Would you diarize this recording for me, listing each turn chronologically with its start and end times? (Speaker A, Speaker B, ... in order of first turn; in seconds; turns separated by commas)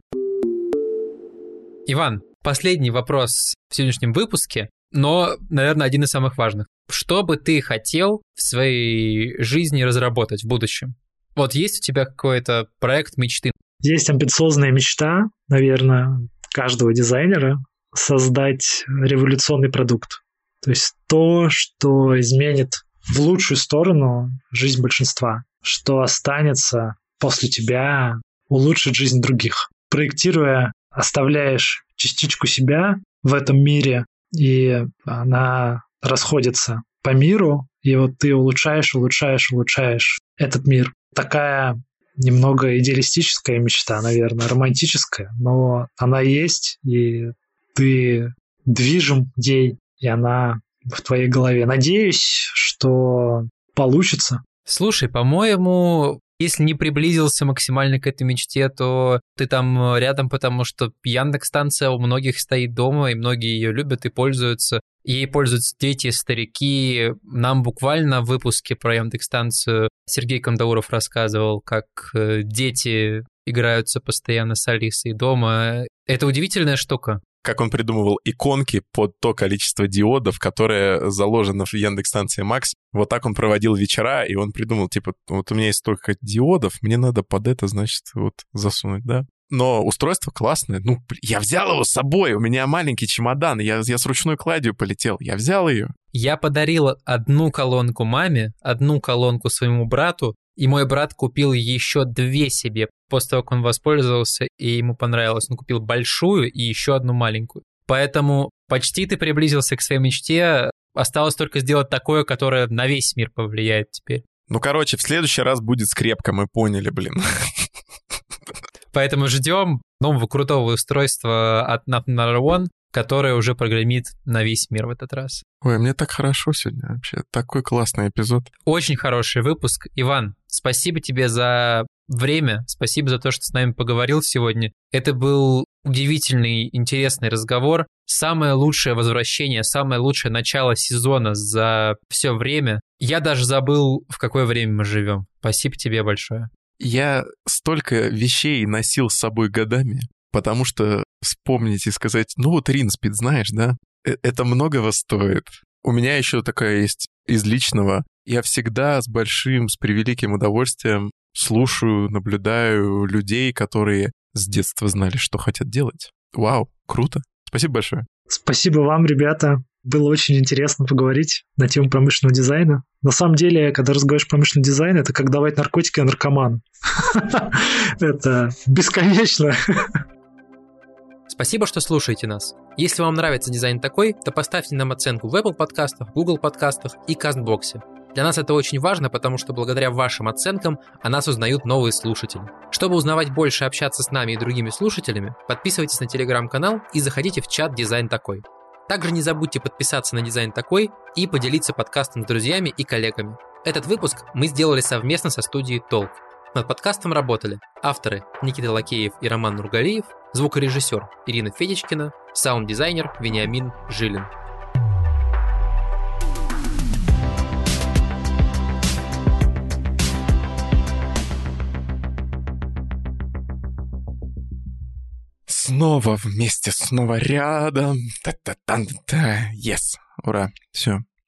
Speaker A: 1.9-13.5, Speaker B: 13.8-54.4, Speaker A: 54.7-77.2, Speaker C: 77.4-95.9, Speaker A: 96.1-114.2, Speaker C: 114.5-117.7, Speaker A: 118.9-125.4, Speaker C: 125.6-128.5, Speaker A: 128.7-146.5, Speaker C: 146.8-168.1, Speaker B: 168.3-180.0, Speaker A: 181.3-214.3, Speaker C: 225.5-231.0